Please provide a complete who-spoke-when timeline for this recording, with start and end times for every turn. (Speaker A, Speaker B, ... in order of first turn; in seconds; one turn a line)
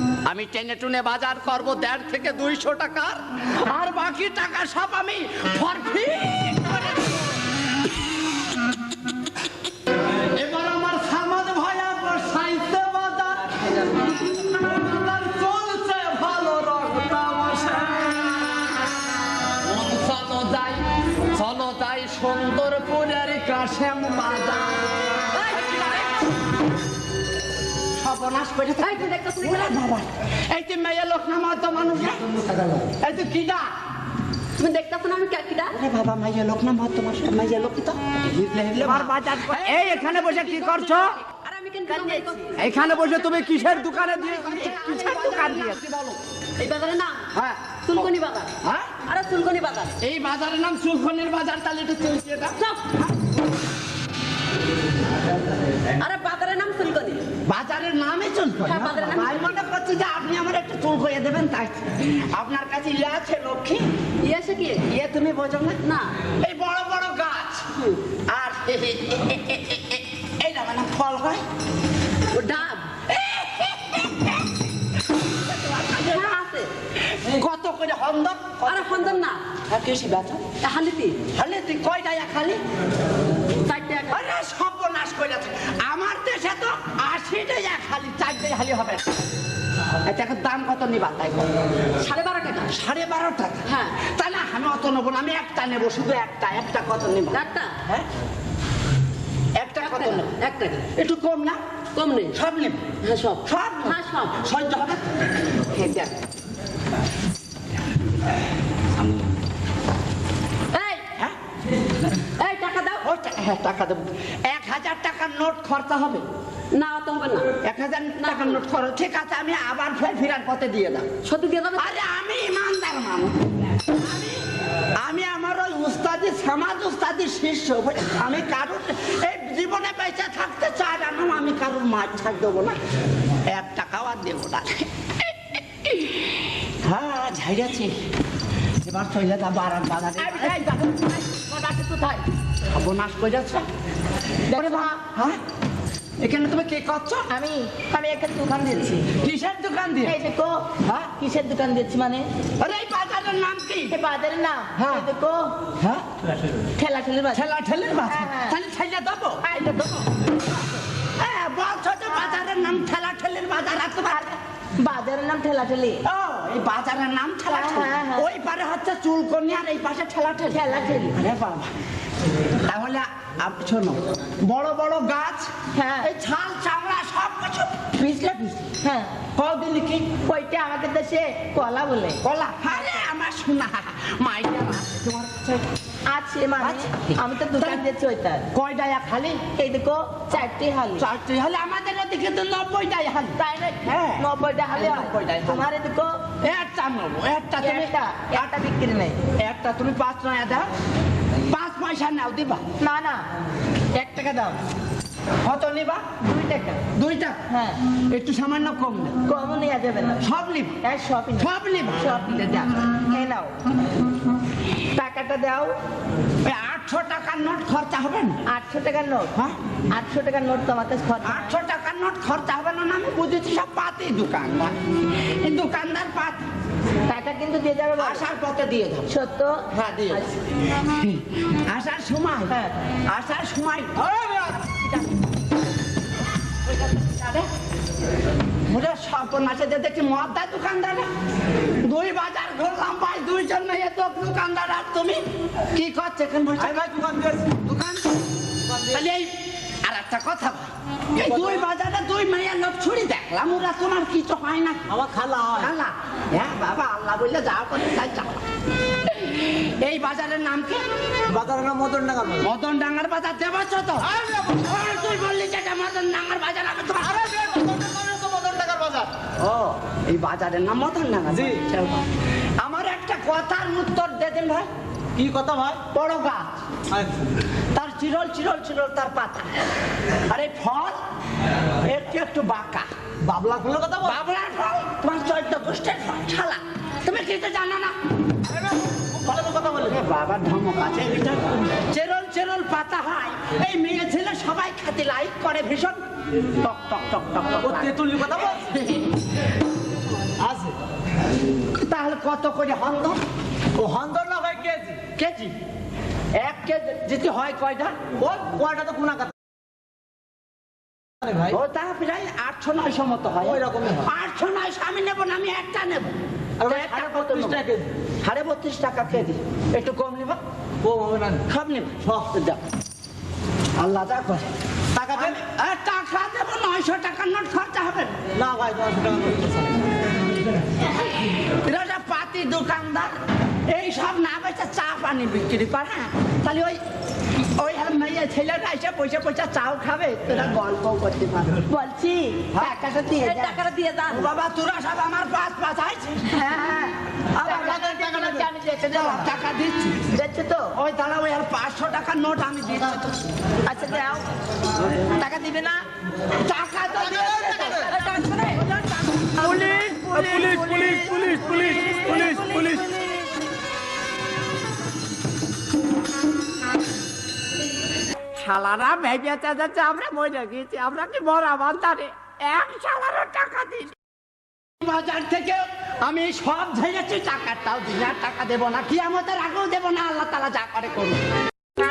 Speaker A: 0.2-7.3
Speaker A: 10.3-13.8
Speaker B: 14.5-17.9
Speaker A: 14.7-18.5
Speaker A: 19.6-26.1
Speaker C: 25.3-26.1
Speaker A: 27.9-33.7
Speaker C: 28.8-29.7
Speaker C: 34.6-35.8
Speaker A: 35.7-41.2
Speaker C: 40.5-42.7
Speaker D: 41.9-42.5
Speaker A: 42.6-46.2
Speaker D: 44.3-45.7
Speaker C: 46.6-47.3
Speaker A: 47.3-48.1
Speaker C: 47.8-48.5
Speaker A: 48.6-48.9
Speaker C: 49.0-50.0
Speaker A: 50.0-52.6
Speaker C: 56.0-57.2
Speaker A: 57.5-63.9
Speaker C: 58.6-59.6
Speaker C: 64.2-64.8
Speaker A: 64.8-65.8
Speaker C: 65.8-66.1
Speaker A: 66.3-67.7
Speaker A: 68.3-71.4
Speaker C: 72.3-72.9
Speaker A: 73.1-74.6
Speaker A: 75.2-76.4
Speaker C: 76.0-76.7
Speaker A: 77.0-80.5
Speaker C: 78.7-79.4
Speaker C: 80.6-81.2
Speaker A: 81.3-82.6
Speaker C: 83.6-84.2
Speaker A: 84.1-89.1
Speaker A: 90.0-91.7
Speaker C: 92.0-92.7
Speaker A: 92.7-98.0
Speaker C: 93.6-94.1
Speaker C: 97.3-97.7
Speaker A: 99.5-100.3
Speaker C: 99.8-100.9
Speaker A: 100.9-101.6
Speaker C: 101.9-102.3
Speaker A: 102.3-102.9
Speaker C: 103.0-104.3
Speaker A: 103.4-105.4
Speaker C: 105.7-106.1
Speaker C: 110.7-111.0
Speaker C: 112.4-113.0
Speaker A: 113.0-116.2
Speaker C: 116.7-117.5
Speaker A: 117.6-121.1
Speaker C: 118.2-118.6
Speaker C: 121.2-121.9
Speaker A: 121.8-124.5
Speaker A: 125.0-132.8
Speaker A: 133.4-134.9
Speaker A: 135.8-138.0
Speaker A: 138.8-141.0
Speaker D: 140.2-142.2
Speaker A: 142.7-143.7
Speaker D: 144.5-145.0
Speaker A: 144.5-145.4
Speaker A: 146.2-147.3
Speaker D: 147.3-149.1
Speaker A: 149.1-150.2
Speaker D: 150.0-152.3
Speaker A: 150.8-151.1
Speaker A: 152.6-153.9
Speaker D: 153.9-155.6
Speaker A: 154.8-155.1
Speaker A: 155.8-156.0
Speaker D: 156.8-157.5
Speaker A: 157.3-159.4
Speaker D: 158.1-158.6
Speaker D: 159.4-160.1
Speaker A: 161.2-164.3
Speaker D: 164.1-166.0
Speaker A: 166.0-171.7
Speaker D: 167.5-168.3
Speaker D: 170.5-171.1
Speaker A: 172.5-178.7
Speaker D: 175.7-176.1
Speaker D: 178.8-179.2
Speaker A: 179.4-180.0
Speaker D: 180.0-182.2
Speaker A: 182.2-185.7
Speaker D: 186.1-188.4
Speaker A: 186.6-187.8
Speaker A: 188.5-189.4
Speaker D: 189.5-191.1
Speaker A: 191.0-195.7
Speaker D: 193.4-196.2
Speaker A: 196.4-198.5
Speaker D: 197.6-199.2
Speaker A: 199.4-200.7
Speaker A: 201.5-202.6
Speaker D: 202.8-203.2
Speaker D: 203.9-204.6
Speaker A: 205.4-206.1
Speaker D: 206.2-206.8
Speaker A: 206.9-207.4
Speaker D: 207.5-207.8
Speaker A: 208.1-209.2
Speaker D: 209.2-210.2
Speaker A: 210.2-210.8
Speaker D: 210.8-211.5
Speaker A: 211.4-212.7
Speaker D: 213.0-213.6
Speaker D: 214.9-215.7
Speaker A: 216.4-218.4
Speaker D: 218.5-219.3
Speaker D: 219.9-221.6
Speaker A: 221.2-226.5
Speaker D: 227.1-228.2
Speaker A: 228.0-229.1
Speaker D: 229.1-230.4
Speaker A: 229.7-230.3
Speaker A: 230.8-234.1
Speaker A: 236.6-237.5
Speaker A: 238.7-241.1
Speaker A: 241.8-245.2
Speaker A: 245.7-246.9
Speaker B: 246.6-247.6
Speaker A: 247.5-248.2
Speaker B: 248.7-249.0
Speaker A: 248.9-254.8
Speaker B: 251.2-251.6
Speaker B: 254.9-255.7
Speaker A: 255.6-258.4
Speaker A: 259.1-260.8
Speaker B: 261.3-262.5
Speaker A: 262.4-267.3
Speaker B: 264.1-264.6
Speaker B: 267.0-269.1
Speaker A: 269.4-272.1
Speaker B: 271.3-271.6
Speaker A: 272.6-274.7
Speaker B: 275.1-275.8
Speaker A: 275.9-276.6
Speaker B: 276.9-277.2
Speaker A: 277.7-279.6
Speaker A: 280.3-281.0
Speaker A: 281.8-282.9
Speaker B: 283.2-284.2
Speaker A: 284.0-287.9
Speaker B: 288.5-289.9
Speaker A: 289.8-298.1
Speaker B: 297.6-298.8
Speaker A: 298.7-299.1
Speaker B: 300.4-300.8
Speaker A: 301.7-303.2
Speaker B: 303.8-305.0
Speaker A: 305.1-305.6
Speaker A: 306.4-307.9
Speaker B: 308.2-309.3
Speaker B: 311.2-311.5
Speaker A: 311.4-317.6
Speaker B: 313.4-314.1
Speaker B: 316.6-317.9
Speaker A: 318.2-320.4
Speaker B: 320.8-321.4
Speaker A: 321.5-322.6
Speaker B: 322.1-322.3
Speaker A: 323.8-328.1
Speaker B: 324.9-325.4
Speaker B: 328.3-329.8
Speaker A: 331.4-333.1
Speaker A: 333.7-336.8
Speaker A: 337.6-341.6
Speaker D: 341.7-343.6
Speaker A: 342.5-342.8
Speaker C: 343.2-344.3
Speaker A: 344.1-346.3
Speaker D: 346.3-349.3
Speaker A: 347.4-347.9
Speaker B: 347.5-348.5
Speaker A: 348.9-350.1
Speaker D: 350.1-350.7
Speaker A: 350.7-353.2
Speaker D: 353.6-354.3
Speaker D: 354.9-355.8
Speaker A: 356.3-357.9
Speaker B: 357.1-357.9
Speaker C: 357.9-358.7
Speaker A: 359.3-363.0
Speaker D: 359.8-362.8
Speaker B: 360.5-361.3
Speaker A: 368.3-373.9
Speaker A: 374.8-381.2